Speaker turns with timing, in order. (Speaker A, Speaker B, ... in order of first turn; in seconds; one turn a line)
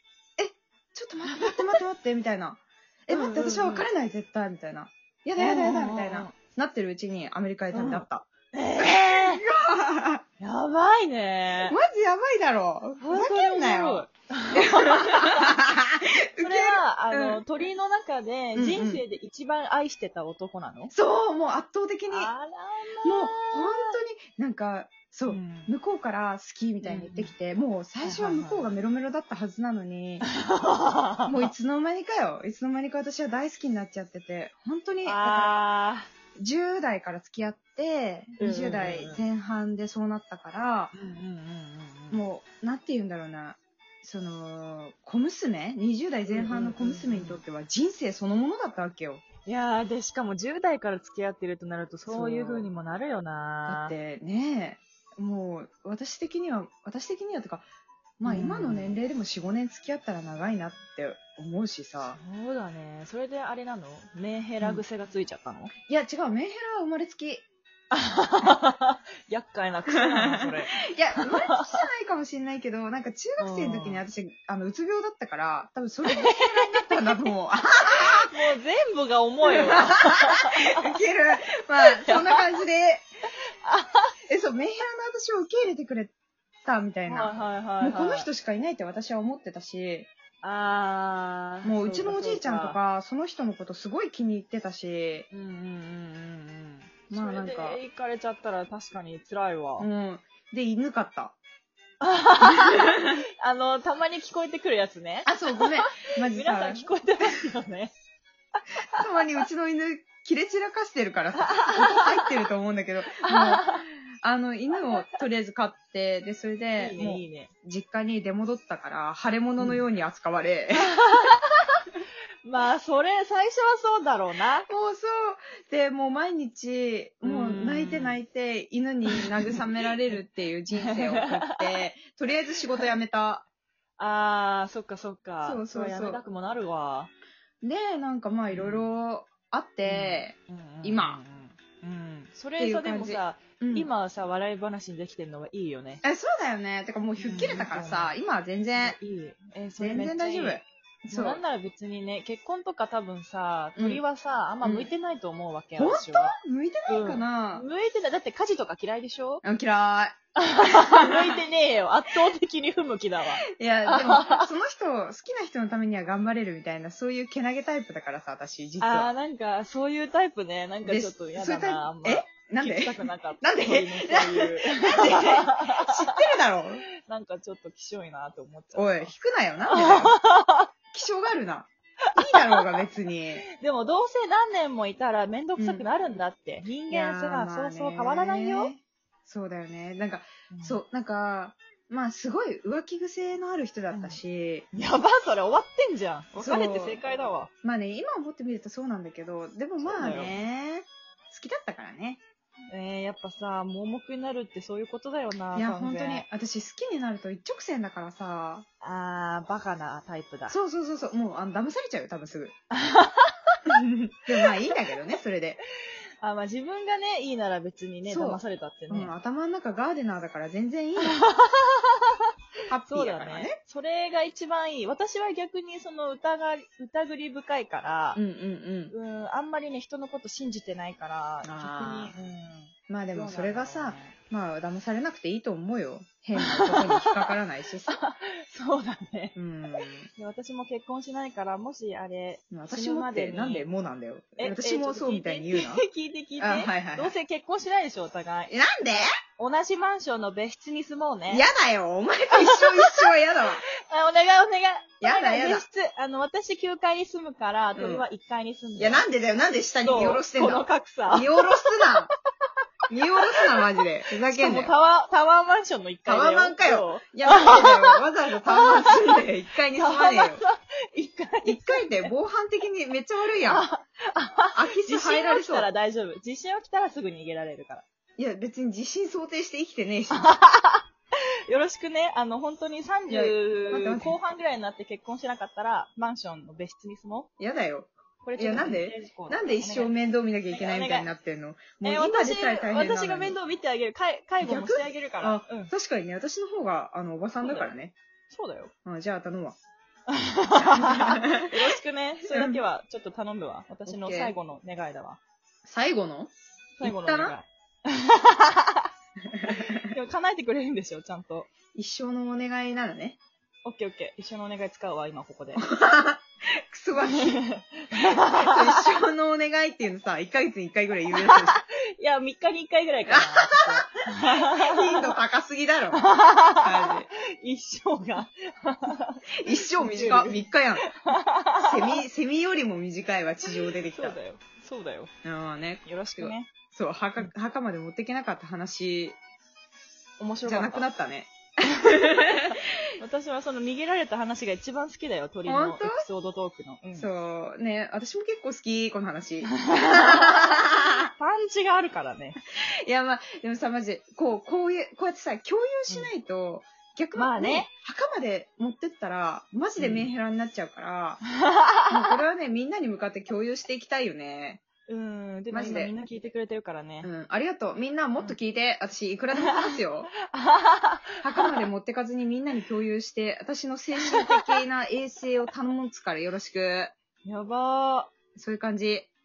Speaker A: 0.4-10.2
Speaker B: 1.2-1.8
Speaker B: 3.1-3.9
Speaker B: 5.4-6.3
Speaker B: 7.7-9.4
Speaker B: 10.4-11.8
Speaker A: 11.7-17.4
Speaker B: 13.0-15.6
Speaker B: 16.4-20.9
Speaker A: 18.6-19.0
Speaker A: 20.9-22.3
Speaker B: 22.1-24.0
Speaker A: 23.0-30.3
Speaker B: 25.3-25.7
Speaker B: 26.8-27.3
Speaker B: 28.0-28.7
Speaker B: 30.2-31.5
Speaker A: 31.2-35.6
Speaker B: 35.0-36.1
Speaker A: 36.3-40.9
Speaker B: 38.4-39.2
Speaker B: 40.9-42.2
Speaker A: 42.1-49.2
Speaker B: 46.3-47.4
Speaker B: 49.5-54.0
Speaker A: 52.1-52.7
Speaker A: 53.7-57.6
Speaker A: 58.2-62.2
Speaker B: 58.2-59.0
Speaker B: 62.0-65.7
Speaker A: 65.9-67.5
Speaker B: 67.9-71.8
Speaker A: 69.9-78.3
Speaker B: 73.4-74.0
Speaker B: 76.1-77.3
Speaker B: 77.9-80.9
Speaker A: 79.5-83.0
Speaker B: 81.8-82.4
Speaker B: 83.6-84.1
Speaker A: 84.3-86.1
Speaker A: 86.6-90.1
Speaker B: 87.0-88.3
Speaker B: 90.4-92.8
Speaker A: 91.6-95.3
Speaker B: 95.3-99.9
Speaker A: 97.1-97.8
Speaker A: 99.8-101.4
Speaker B: 102.0-107.9
Speaker A: 102.4-103.2
Speaker A: 105.2-106.9
Speaker A: 109.0-121.0
Speaker B: 111.4-112.3
Speaker B: 113.2-113.9
Speaker B: 116.8-117.5
Speaker B: 120.8-121.8
Speaker B: 122.4-124.7
Speaker A: 124.7-133.4
Speaker B: 127.2-128.2
Speaker B: 129.1-129.6
Speaker B: 130.8-131.8
Speaker B: 134.0-137.1
Speaker A: 135.4-136.2
Speaker A: 137.6-141.2
Speaker B: 138.5-138.8
Speaker B: 139.8-146.0
Speaker A: 142.6-143.9
Speaker A: 146.0-149.0
Speaker B: 147.2-148.1
Speaker B: 148.8-156.3
Speaker A: 149.8-151.4
Speaker A: 153.8-154.0
Speaker A: 154.6-154.9
Speaker A: 155.8-157.7
Speaker B: 156.9-159.4
Speaker A: 159.4-161.1
Speaker B: 160.4-164.5
Speaker A: 163.5-169.1
Speaker B: 168.8-176.2
Speaker A: 170.8-176.8
Speaker B: 177.1-179.1
Speaker A: 178.7-180.2
Speaker B: 179.7-180.7
Speaker A: 180.9-183.4
Speaker B: 182.2-182.6
Speaker B: 183.5-188.7
Speaker A: 185.6-185.8
Speaker A: 186.9-194.7
Speaker B: 190.5-190.8
Speaker B: 193.9-194.2
Speaker B: 194.7-197.5
Speaker A: 196.3-197.0
Speaker A: 197.6-202.2
Speaker B: 199.8-200.4
Speaker B: 202.7-206.3
Speaker A: 205.5-208.7
Speaker B: 208.8-210.5
Speaker A: 210.5-212.6
Speaker B: 212.7-213.6
Speaker A: 213.7-215.6
Speaker B: 216.2-219.1
Speaker A: 218.1-221.2
Speaker B: 221.0-222.2
Speaker A: 222.7-223.6
Speaker B: 222.9-228.2
Speaker A: 228.1-228.9
Speaker B: 228.9-234.1
Speaker A: 231.4-232.1
Speaker A: 232.9-238.0
Speaker B: 236.4-237.3
Speaker B: 237.9-239.4
Speaker A: 239.3-240.1
Speaker B: 240.2-243.7
Speaker A: 242.5-245.8
Speaker B: 244.4-251.4
Speaker A: 246.4-247.2
Speaker A: 248.5-249.2
Speaker A: 251.3-253.6
Speaker B: 252.3-253.1
Speaker B: 253.8-259.0
Speaker A: 255.0-255.6
Speaker A: 257.8-258.0
Speaker A: 258.8-262.1
Speaker B: 259.8-261.9
Speaker A: 262.9-264.7
Speaker B: 263.2-263.6
Speaker B: 264.3-269.2
Speaker A: 266.1-270.4
Speaker B: 269.8-272.1
Speaker A: 271.4-273.7
Speaker B: 273.4-277.8
Speaker A: 274.5-275.7
Speaker A: 278.2-280.3
Speaker B: 280.1-280.8
Speaker B: 281.5-287.3
Speaker A: 283.1-284.2
Speaker A: 287.4-293.4
Speaker B: 288.2-289.9
Speaker B: 290.5-291.1
Speaker B: 291.8-295.7
Speaker A: 294.4-297.9
Speaker B: 297.4-297.7
Speaker B: 298.3-298.7
Speaker A: 298.8-299.6
Speaker B: 300.1-305.2
Speaker A: 300.6-301.5
Speaker A: 302.2-302.6
Speaker A: 303.9-304.3
Speaker A: 305.6-306.3
Speaker B: 306.8-308.9
Speaker A: 306.8-307.4
Speaker A: 309.3-309.9
Speaker B: 309.5-311.5
Speaker A: 311.7-313.2
Speaker B: 313.6-315.6
Speaker A: 315.6-317.4
Speaker B: 317.1-318.9
Speaker A: 318.0-321.6
Speaker B: 321.1-325.1
Speaker A: 323.1-327.1
Speaker B: 325.9-332.0
Speaker A: 329.4-331.0
Speaker A: 331.5-334.2
Speaker B: 333.4-335.1
Speaker A: 335.2-339.2
Speaker B: 335.9-336.5
Speaker B: 340.2-340.9
Speaker A: 340.4-342.5
Speaker B: 342.5-347.1
Speaker A: 345.4-346.1
Speaker A: 346.9-351.1
Speaker B: 349.5-352.4
Speaker A: 352.8-361.2
Speaker B: 357.1-357.7
Speaker B: 359.8-360.1
Speaker B: 361.4-362.1
Speaker A: 361.9-364.6
Speaker B: 364.9-367.1
Speaker A: 365.5-365.9
Speaker A: 367.0-370.1
Speaker B: 369.4-371.6
Speaker A: 371.2-376.9
Speaker B: 374.0-374.6
Speaker B: 377.2-378.1
Speaker A: 378.3-379.1